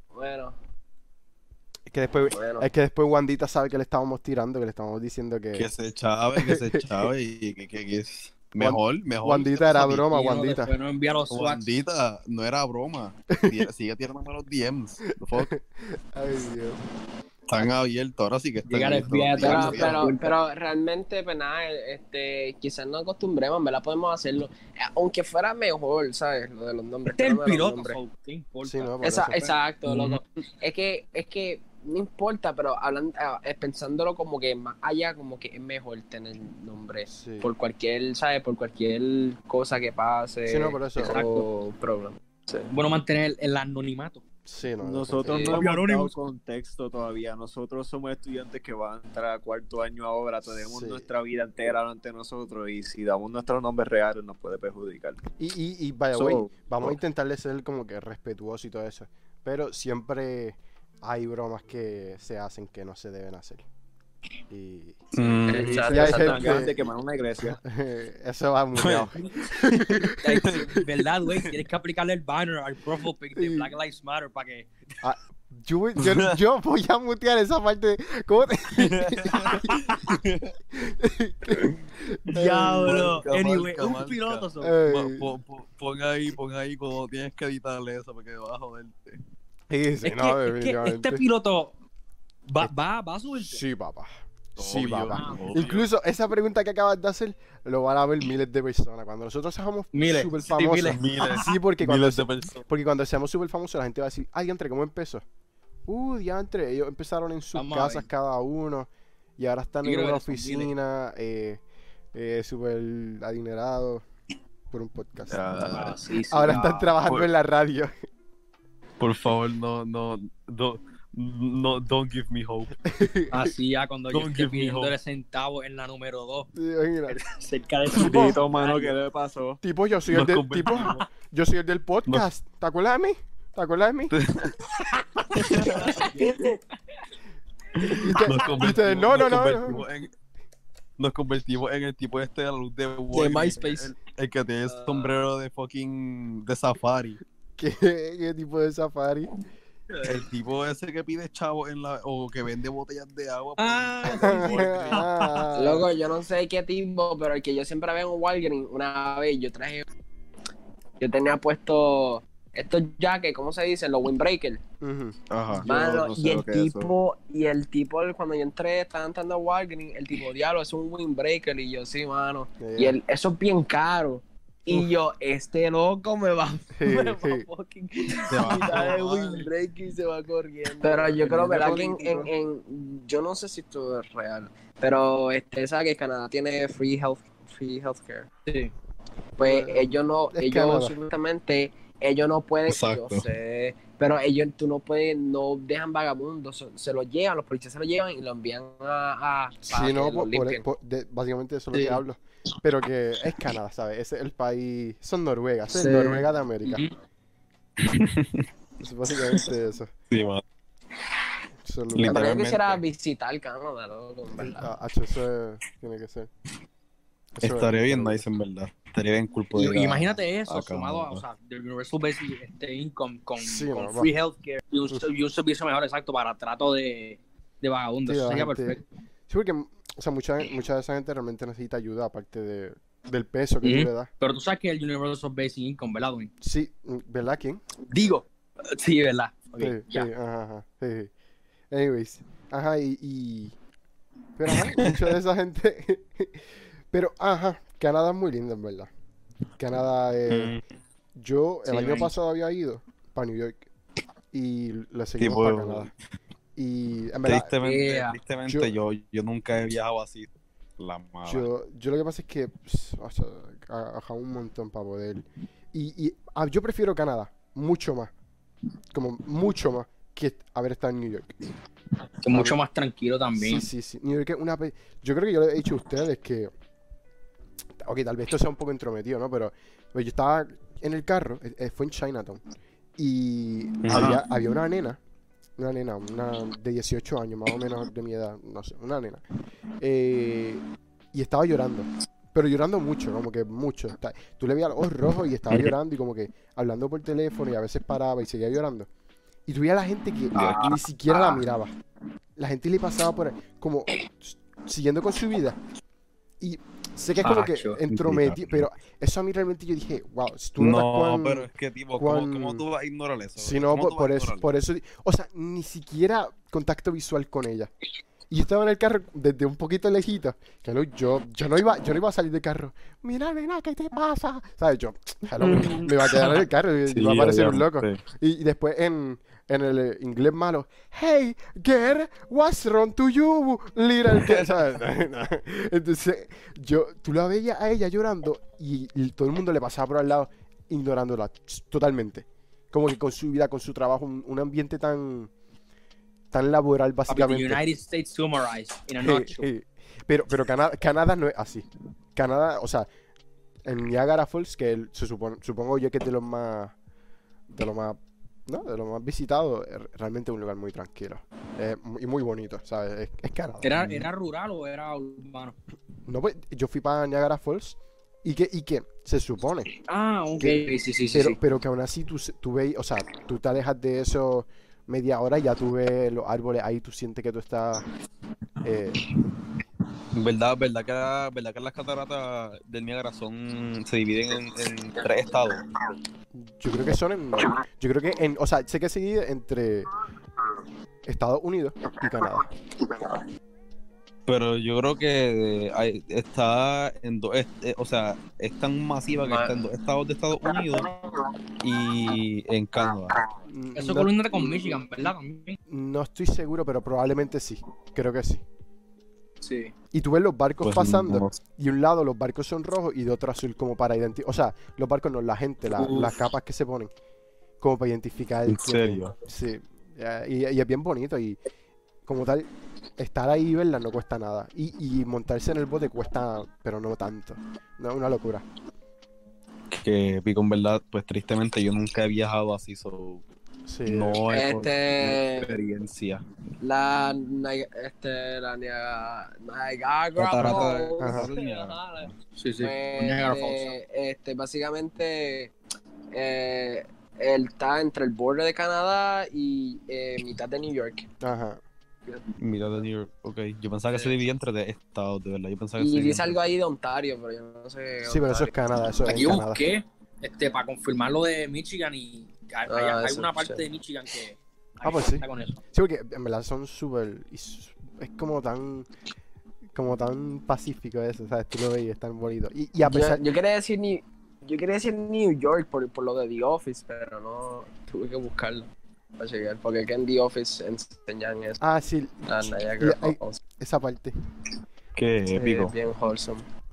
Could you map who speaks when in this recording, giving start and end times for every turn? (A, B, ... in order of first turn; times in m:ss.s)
0:00.1-0:00.6 A
0:01.9-0:05.7 B
0:02.3-0:02.7 A
0:05.5-0:10.0 C
0:06.4-0:07.1 B
0:08.6-0:10.7 B
0:10.0-0:11.7 D
0:11.3-0:15.5 C
0:13.4-0:13.7 B
0:15.3-0:16.8 B
0:17.5-0:20.0 C
0:18.7-0:20.3 D
0:19.4-0:28.0 A
0:27.1-0:29.6 D
0:28.6-0:29.5 B
0:29.0-0:42.7 A
0:29.9-0:30.2 C
0:37.1-0:37.5 B
0:40.5-0:41.2 B
0:41.1-0:41.5 D
0:42.7-0:44.2 D
0:44.4-0:45.6 B
0:44.8-0:55.2 E
0:45.3-0:45.6 A
0:45.4-0:46.2 D
0:50.5-0:51.1 B
0:55.4-1:03.6 B
0:56.2-0:57.0 E
1:04.5-1:05.0 B
1:05.1-1:06.1 C
1:05.5-1:06.6 A
1:05.5-1:07.6 E
1:05.8-1:06.9 B
1:07.6-1:10.5 B
1:08.8-1:11.5 C
1:10.2-1:14.7 D
1:13.4-1:13.7 B
1:15.0-1:19.8 B
1:16.0-1:16.4 C
1:18.8-1:20.5 C
1:20.8-1:23.1 B
1:21.5-1:21.8 C
1:22.3-1:24.8 D
1:22.7-1:29.2 C
1:24.6-1:25.3 B
1:29.7-1:31.2 B
1:30.0-1:31.8 D
1:32.5-1:33.6 D
1:33.4-1:45.2 B
1:34.6-1:35.9 C
1:35.1-1:35.7 D
1:39.9-1:41.5 D
1:40.8-1:42.7 C
1:45.9-1:51.6 B
1:47.5-1:48.1 D
1:49.8-1:50.7 D
1:52.1-1:54.0 B
1:54.7-1:55.6 B
1:55.3-1:56.0 C
1:55.6-1:56.9 D
1:56.3-1:57.9 B
1:56.5-1:57.3 C
1:59.0-2:02.8 C
2:02.8-2:03.5 B
2:03.3-2:06.5 D
2:04.1-2:05.0 C
2:06.6-2:07.2 B
2:07.1-2:09.0 D
2:07.9-2:09.6 E
2:08.0-2:08.4 B
2:09.6-2:14.1 B
2:10.1-2:11.0 C
2:10.8-2:11.0 D
2:14.1-2:14.7 C
2:15.3-2:16.0 C
2:15.4-2:16.6 A
2:15.4-2:16.4 D
2:17.8-2:20.1 C
2:18.0-2:19.8 B
2:21.0-2:27.2 C
2:23.1-2:23.9 A
2:24.7-2:25.1 A
2:27.6-2:29.3 B
2:30.0-2:35.1 C
2:33.6-2:35.5 D
2:34.0-2:35.9 B
2:35.6-2:39.9 A
2:41.0-2:44.6 A
2:44.8-2:45.2 B
2:45.3-2:45.7 C
2:45.6-2:46.9 E
2:45.6-3:08.4 A
2:52.6-2:53.0 B
2:56.7-2:57.5 B
2:58.3-2:59.5 C
2:58.7-2:59.0 E
3:00.7-3:02.3 E
3:08.5-3:08.7 D
3:09.4-3:20.6 A
3:09.4-3:11.0 B
3:12.7-3:13.3 C
3:19.6-3:26.8 B
3:25.7-3:26.3 A
3:27.8-3:28.5 C
3:28.8-3:29.9 B
3:30.1-3:30.4 C
3:31.6-3:32.6 B
3:32.0-3:32.8 C
3:32.1-3:34.7 A
3:34.3-3:36.3 B
3:37.4-3:38.3 B
3:37.4-3:41.2 C
3:39.5-3:48.8 D
3:43.4-3:44.1 B
3:48.1-3:54.1 B
3:53.6-3:56.3 D
3:56.4-3:57.6 B
3:57.9-4:00.1 D
3:59.6-4:01.1 B
4:01.7-4:03.6 B
4:04.4-4:08.9 B
4:04.5-4:05.1 C
4:09.6-4:10.6 B
4:10.3-4:10.6 C
4:11.2-4:13.6 B
4:11.7-4:12.1 D
4:14.3-4:15.9 B
4:15.2-4:15.9 C
4:16.6-4:17.5 B
4:17.2-4:21.5 C
4:17.6-4:18.2 D
4:18.5-4:18.8 B
4:21.2-4:28.1 B
4:28.9-4:31.3 B
4:32.2-4:33.7 D
4:32.3-4:32.6 B
4:33.4-4:36.5 B
4:37.8-4:42.4 B
4:43.0-4:45.0 B
4:43.8-4:44.2 C
4:45.6-4:49.2 B
4:49.8-4:58.9 B
4:59.5-5:01.7 B
5:00.4-5:00.7 C
5:00.4-5:01.4 D
5:02.4-5:05.6 B
5:06.4-5:12.6 B
5:07.2-5:07.8 D
5:07.9-5:08.6 C
5:10.6-5:14.5 C
5:13.4-5:17.7 B
5:18.3-5:45.3 B
5:25.4-5:28.0 C
5:46.3-5:47.6 B
5:47.1-5:49.5 D
5:49.0-5:52.9 B
5:53.6-5:56.8 B
5:57.5-6:04.1 B
6:03.6-6:05.6 D
6:06.1-6:09.7 B
6:09.9-6:11.4 D
6:10.4-6:17.9 B
6:18.6-6:19.0 B
6:20.1-6:25.6 C
6:26.3-6:29.9 B
6:31.0-6:32.5 B
6:34.3-6:40.9 C
6:39.2-6:39.6 A
6:41.6-6:43.2 C
6:43.5-6:44.8 B
6:43.8-6:45.6 D
6:45.7-6:48.4 B
6:49.4-6:49.7 D
6:49.9-6:56.9 B
6:50.6-6:51.4 C
6:55.8-6:56.2 D
6:57.6-7:01.4 B
6:58.5-6:59.2 C
7:02.1-7:08.4 B
7:09.7-7:13.2 C
7:13.7-7:14.2 B
7:13.8-7:16.2 C
7:14.3-7:15.5 A
7:16.6-7:25.5 A
7:20.2-7:22.1 C
7:20.4-7:21.3 B
7:22.4-7:23.8 D
7:26.1-7:31.1 A
7:31.2-7:31.6 B
7:32.4-7:36.4 C
7:35.8-7:38.6 A
7:38.0-7:39.6 B
7:39.1-7:45.6 D
7:42.7-7:43.7 A
7:44.8-7:48.9 B
7:49.7-7:53.2 B
7:52.8-8:01.6 A
8:01.6-8:04.1 B
8:02.3-8:03.4 A
8:05.0-8:05.7 C
8:05.3-8:06.5 A